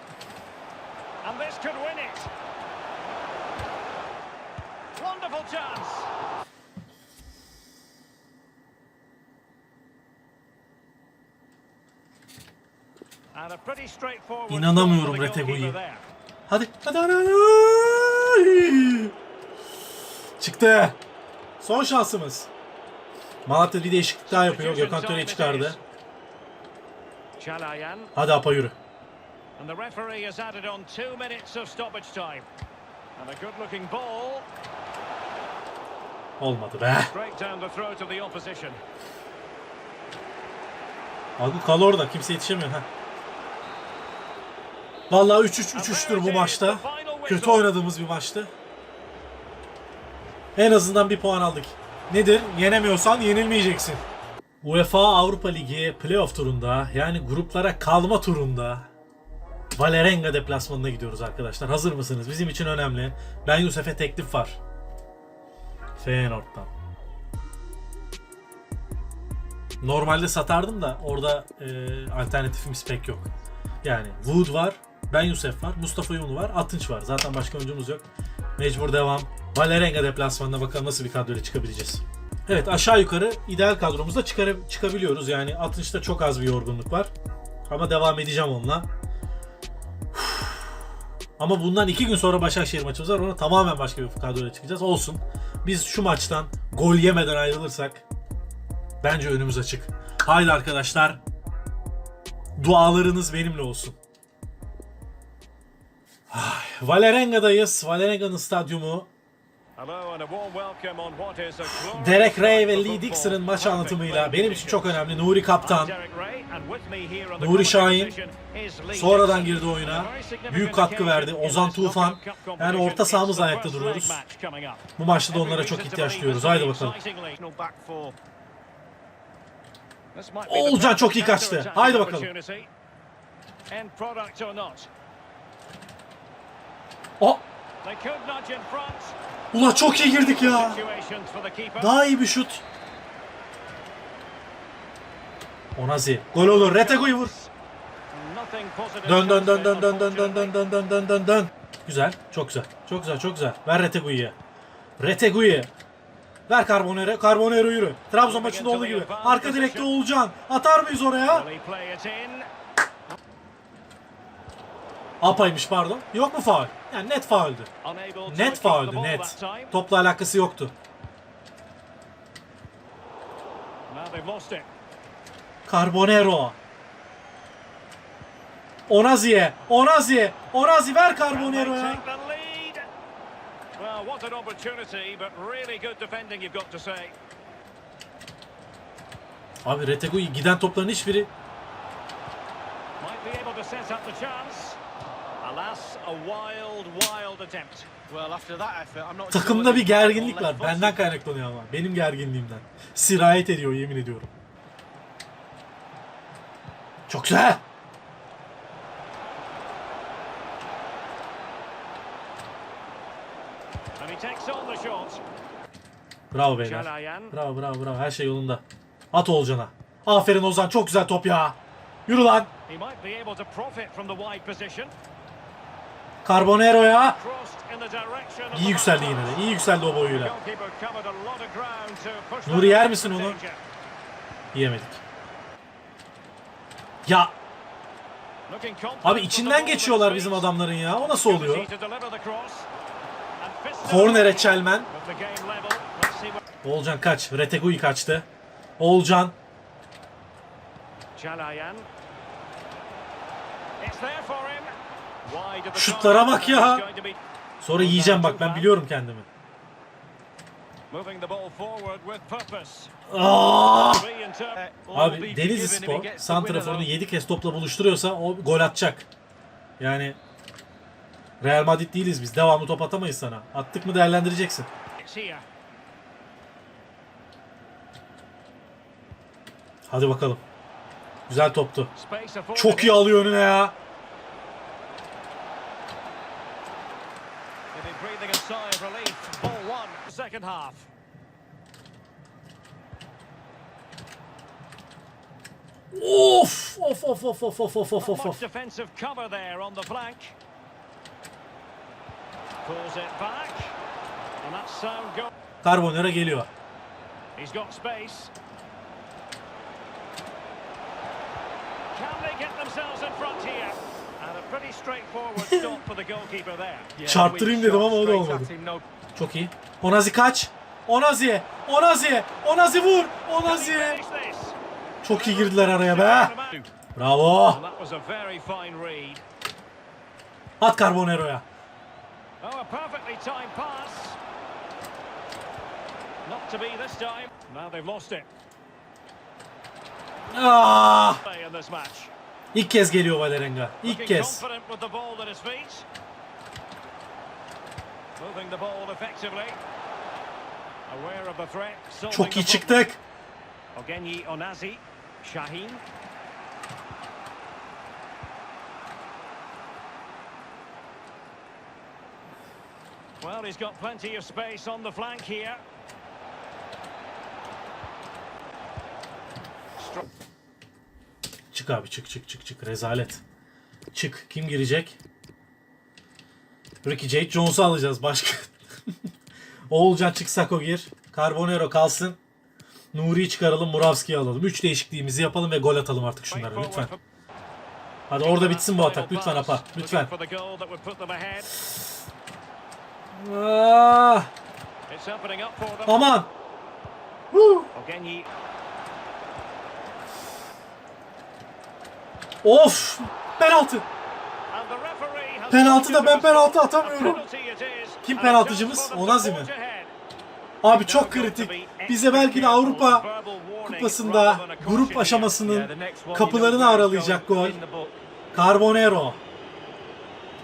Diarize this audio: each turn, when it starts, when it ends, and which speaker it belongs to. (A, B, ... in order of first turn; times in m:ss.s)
0:01.2-0:02.3 A
0:05.0-0:06.1 A
0:13.3-0:16.0 A
0:14.5-0:15.8 B
0:16.5-0:19.1 B
0:20.4-0:21.0 B
0:21.6-0:22.5 B
0:23.4-0:25.8 B
0:24.2-0:25.8 A
0:27.4-0:28.1 A
0:28.2-0:28.8 B
0:29.6-0:32.5 A
0:33.2-0:34.5 A
0:36.4-0:37.1 B
0:37.1-0:38.8 A
0:41.4-0:42.9 B
0:45.1-0:48.5 B
0:45.7-0:47.7 A
0:50.5-0:54.0 B
0:54.6-0:58.9 B
0:59.8-1:04.6 B
1:06.0-1:06.7 B
1:09.8-1:13.3 B
1:13.8-1:18.0 B
1:18.6-1:27.1 B
1:27.7-1:28.9 B
1:30.1-1:30.8 B
1:31.4-1:38.0 B
1:39.0-1:41.2 B
1:42.6-1:44.0 B
1:46.3-1:49.1 B
1:49.8-2:07.4 A
1:51.7-1:55.9 B
1:57.4-1:58.2 B
1:58.9-2:04.2 B
2:05.0-2:07.0 B
2:07.4-2:08.2 C
2:10.1-2:12.7 A
2:10.5-2:12.3 B
2:13.7-2:14.9 A
2:17.8-2:19.2 A
2:19.5-2:20.8 B
2:20.0-2:21.9 A
2:21.8-2:22.6 B
2:25.7-2:27.3 B
2:26.3-2:27.5 A
2:28.1-2:30.6 A
2:29.0-2:34.4 B
2:35.0-2:35.7 B
2:36.5-2:41.5 B
2:38.2-2:39.9 A
2:41.3-2:42.5 A
2:45.2-2:47.7 B
2:47.8-2:49.7 A
2:48.2-2:50.7 B
2:53.9-2:54.7 A
2:55.6-2:56.6 B
2:58.9-3:02.0 B
3:01.3-3:02.8 A
3:03.8-3:07.1 A
3:09.6-3:11.3 B
3:13.0-3:14.8 A
3:15.4-3:17.9 A
3:18.1-3:21.0 C
3:19.3-3:24.3 B
3:27.1-3:27.6 B
3:34.0-3:35.2 A
3:36.3-3:42.5 B
3:36.6-3:37.4 A
3:42.7-3:44.9 A
3:46.2-3:47.2 B
3:47.1-3:53.6 A
3:48.5-3:50.3 B
3:52.4-3:53.4 B
3:54.5-3:55.0 B
3:57.0-3:57.3 B
3:58.5-4:02.7 A
3:59.0-4:01.7 B
4:03.4-4:06.4 A
4:03.8-4:04.9 B
4:06.6-4:08.3 B
4:08.8-4:09.4 B
4:11.1-4:11.9 A
4:13.8-4:14.7 A
4:15.2-4:17.2 A
4:15.7-4:16.8 B
4:17.6-4:19.3 B
4:17.7-4:18.7 A
4:20.9-4:22.9 A
4:23.1-4:24.1 B
4:23.8-4:24.6 A
4:24.6-4:26.9 C
4:24.9-4:29.1 B
4:29.8-4:30.2 B
4:31.4-4:34.7 B
4:35.0-4:35.4 A
4:39.9-4:40.4 B
4:41.3-4:41.9 B
4:41.9-4:43.0 A
4:42.5-4:43.7 B
4:47.7-4:50.9 A
4:55.9-4:58.4 B
4:58.0-5:00.4 A
5:02.6-5:03.8 A
5:04.4-5:05.3 A
5:05.6-5:06.5 B
5:07.4-5:08.3 A
5:11.9-5:16.9 A
5:15.4-5:15.8 B
5:17.0-5:18.8 C
5:17.0-5:18.5 B
5:19.1-5:24.0 B
5:23.4-5:26.7 A
5:25.0-5:26.3 B
5:26.9-5:27.6 B
5:27.5-5:29.2 A
5:30.6-5:31.4 B
5:32.4-5:34.2 A
5:36.2-5:38.3 A
5:40.3-5:41.2 B
5:41.2-5:42.1 A
5:42.5-5:44.4 B
5:43.8-5:45.9 A
5:48.2-5:49.6 A
5:50.9-5:52.9 A
5:52.1-5:53.0 B
5:53.7-5:55.8 A
6:03.2-6:05.6 A
6:09.8-6:10.0 A
6:11.5-6:13.2 B
6:13.9-6:15.0 B
6:16.8-6:18.9 B
6:19.7-6:22.2 B
6:22.9-6:26.9 B
6:26.3-6:27.0 A
6:28.1-6:30.1 B
6:28.1-6:31.5 A
6:33.1-6:34.3 B
6:34.9-6:36.0 A
6:35.9-6:36.3 B
6:37.3-6:37.7 B
6:37.7-6:38.3 A
6:42.4-6:43.9 B
6:44.5-6:49.9 A
6:45.5-6:47.2 B
6:48.0-6:49.5 B
6:50.6-6:53.1 B
6:50.6-6:55.4 A
6:53.6-6:57.6 B
6:55.4-6:58.0 C
6:58.3-6:59.2 B